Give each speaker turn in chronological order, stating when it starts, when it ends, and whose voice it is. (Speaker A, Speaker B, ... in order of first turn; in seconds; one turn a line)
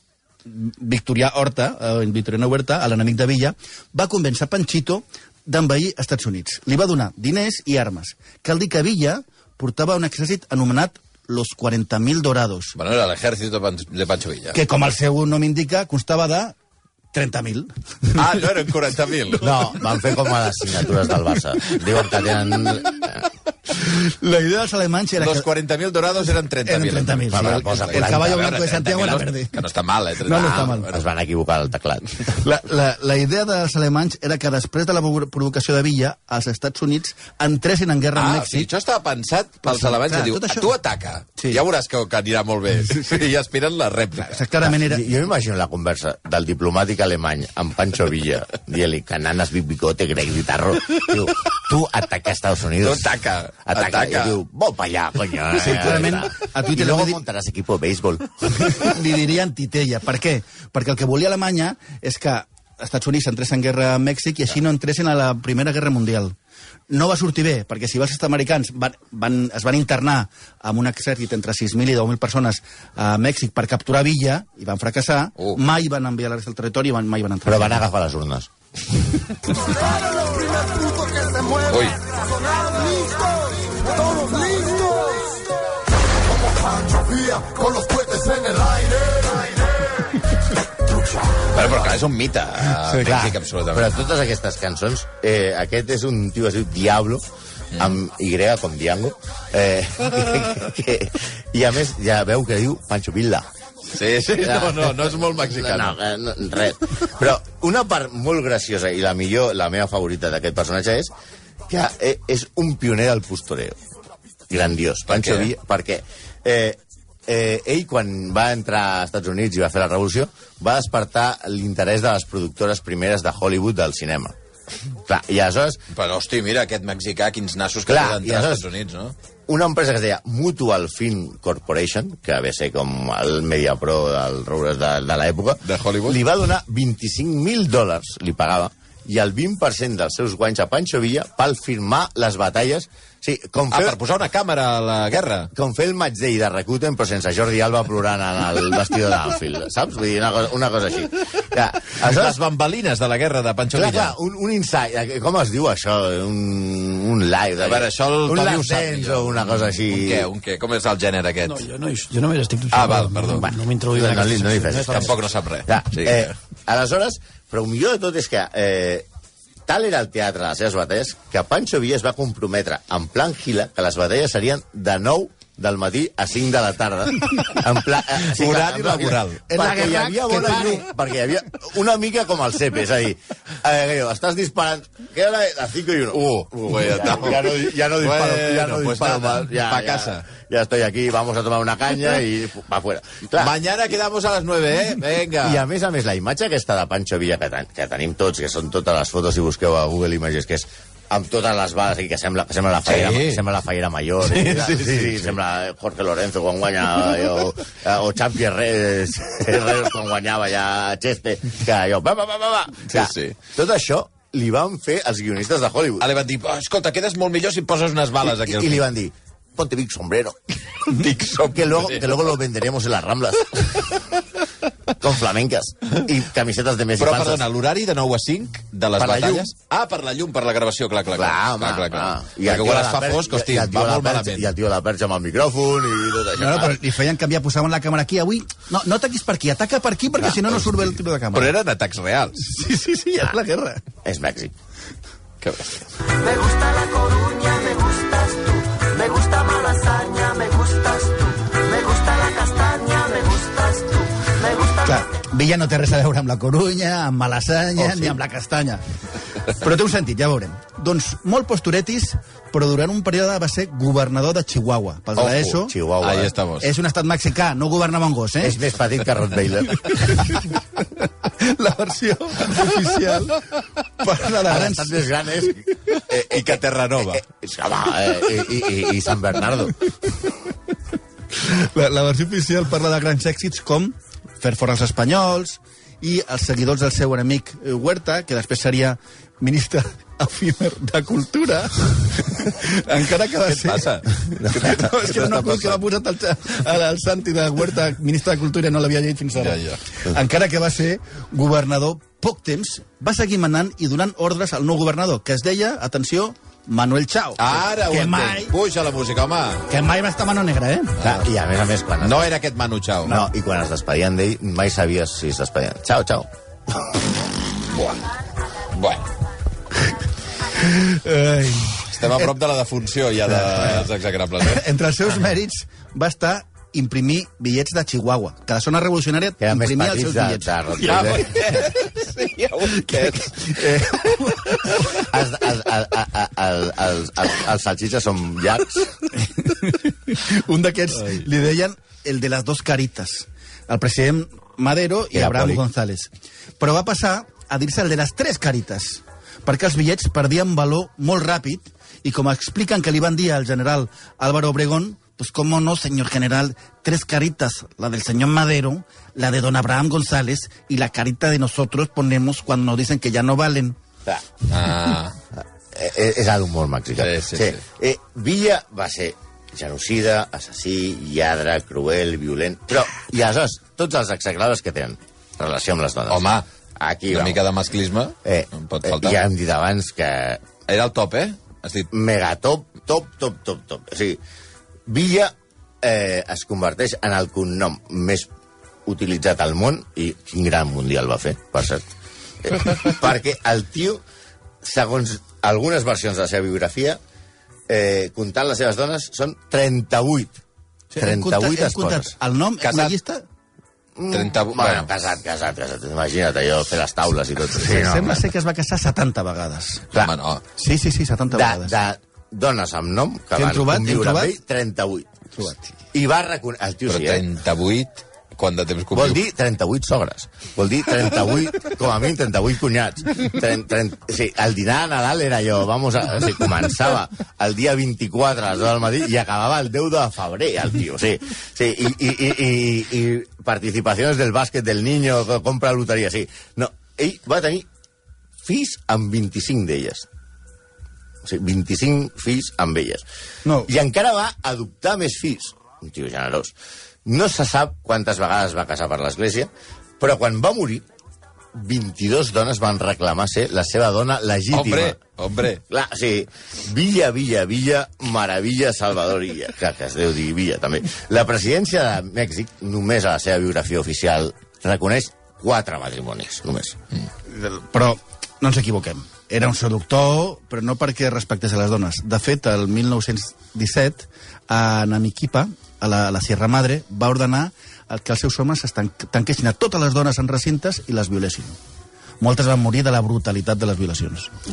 Speaker A: 0.5-12.7
Speaker B: 12.7-14.6
Speaker A: 14.5-16.6
Speaker A: 17.1-18.3
Speaker B: 18.1-19.8
Speaker C: 19.4-23.3
Speaker A: 23.7-25.5
Speaker B: 25.2-31.1
Speaker A: 26.6-29.5
Speaker C: 27.3-28.6
Speaker A: 30.2-30.9
Speaker C: 30.4-32.3
Speaker A: 32.3-38.7
Speaker B: 38.1-44.5
Speaker A: 39.6-40.7
Speaker A: 44.2-45.0
Speaker C: 44.6-53.1
Speaker B: 52.8-54.4
Speaker C: 53.6-58.9
Speaker A: 55.5-57.2
Speaker A: 58.6-66.3
Speaker A: 66.9-77.8
Speaker C: 77.4-78.5
Speaker D: 80.5-81.4
Speaker B: 81.7-82.0
Speaker D: 82.9-83.3
Speaker D: 83.9-85.2
Speaker D: 86.9-88.5
Speaker B: 91.4-94.1
Speaker A: 92.9-93.2
Speaker C: 93.0-97.2
Speaker C: 97.7-103.5
Speaker B: 103.9-106.0
Speaker C: 104.4-111.1
Speaker C: 111.7-113.8
Speaker C: 114.5-124.3
Speaker B: 115.1-115.5
Speaker C: 125.0-125.8
Speaker B: 125.9-129.1
Speaker C: 127.9-128.7
Speaker C: 129.5-144.0
Speaker B: 135.6-136.2
Speaker B: 143.7-145.5
Speaker C: 145.5-152.4
Speaker B: 152.0-154.1
Speaker C: 153.7-160.3
Speaker B: 157.6-161.7
Speaker D: 161.5-165.1
Speaker B: 162.7-163.5
Speaker C: 163.3-169.1
Speaker B: 164.7-166.3
Speaker C: 169.7-193.5
Speaker B: 178.2-179.4
Speaker A: 179.5-180.8
Speaker B: 186.1-190.2
Speaker B: 193.4-195.6
Speaker C: 195.4-216.1
Speaker B: 202.8-203.4
Speaker B: 204.2-205.3
Speaker B: 212.9-213.4
Speaker B: 216.0-218.8
Speaker C: 218.2-224.0
Speaker B: 220.9-222.2
Speaker C: 225.0-227.4
Speaker B: 227.0-234.5
Speaker C: 229.0-229.5
Speaker C: 231.1-236.8
Speaker A: 236.3-241.5
Speaker C: 240.2-240.5
Speaker B: 241.3-242.5
Speaker A: 242.4-243.8
Speaker C: 244.0-244.5
Speaker B: 245.4-245.9
Speaker E: 246.1-254.9
Speaker A: 254.8-258.8
Speaker C: 257.8-258.1
Speaker A: 259.4-265.7
Speaker C: 265.1-266.3
Speaker B: 266.0-266.7
Speaker A: 266.6-268.6
Speaker C: 268.4-270.2
Speaker A: 271.2-273.4
Speaker A: 274.0-275.0
Speaker C: 274.4-279.7
Speaker B: 276.1-277.2
Speaker A: 281.3-308.5
Speaker B: 293.4-295.8
Speaker B: 299.4-299.8
Speaker B: 307.4-309.6
Speaker A: 309.7-311.0
Speaker B: 311.0-311.2
Speaker C: 311.0-312.3
Speaker B: 312.0-313.3
Speaker C: 313.0-316.3
Speaker B: 317.6-318.0
Speaker B: 318.7-319.1
Speaker A: 320.5-322.3
Speaker B: 321.9-324.6
Speaker A: 323.3-323.9
Speaker A: 324.4-330.6
Speaker C: 329.4-331.6
Speaker B: 330.8-334.8
Speaker A: 332.6-334.9
Speaker C: 334.9-338.9
Speaker A: 339.1-363.8
Speaker C: 345.1-345.6
Speaker B: 364.5-365.2
Speaker C: 365.7-376.3
Speaker B: 367.0-367.6
Speaker B: 376.1-376.4
Speaker C: 376.8-377.4
Speaker B: 377.1-379.2
Speaker C: 378.2-380.4
Speaker B: 380.7-381.9
Speaker C: 381.9-384.2
Speaker C: 384.9-388.3
Speaker C: 388.9-391.9
Speaker C: 392.4-394.0
Speaker C: 394.6-397.0
Speaker C: 397.7-400.4
Speaker A: 400.9-403.2
Speaker C: 401.0-402.1
Speaker B: 402.6-402.9
Speaker C: 403.9-408.3
Speaker B: 404.1-404.9
Speaker A: 407.6-409.9
Speaker B: 409.9-410.4
Speaker A: 410.6-411.7
Speaker C: 411.3-415.1
Speaker A: 413.3-414.4
Speaker A: 415.4-415.6
Speaker C: 415.9-417.2
Speaker B: 416.9-419.2
Speaker C: 418.9-437.6
Speaker C: 438.4-440.1
Speaker C: 441.2-443.0
Speaker A: 443.4-443.7
Speaker C: 443.6-446.5
Speaker C: 447.1-450.8
Speaker C: 451.5-455.0
Speaker B: 454.5-455.6
Speaker C: 455.7-466.8
Speaker A: 467.3-481.5
Speaker A: 482.2-484.3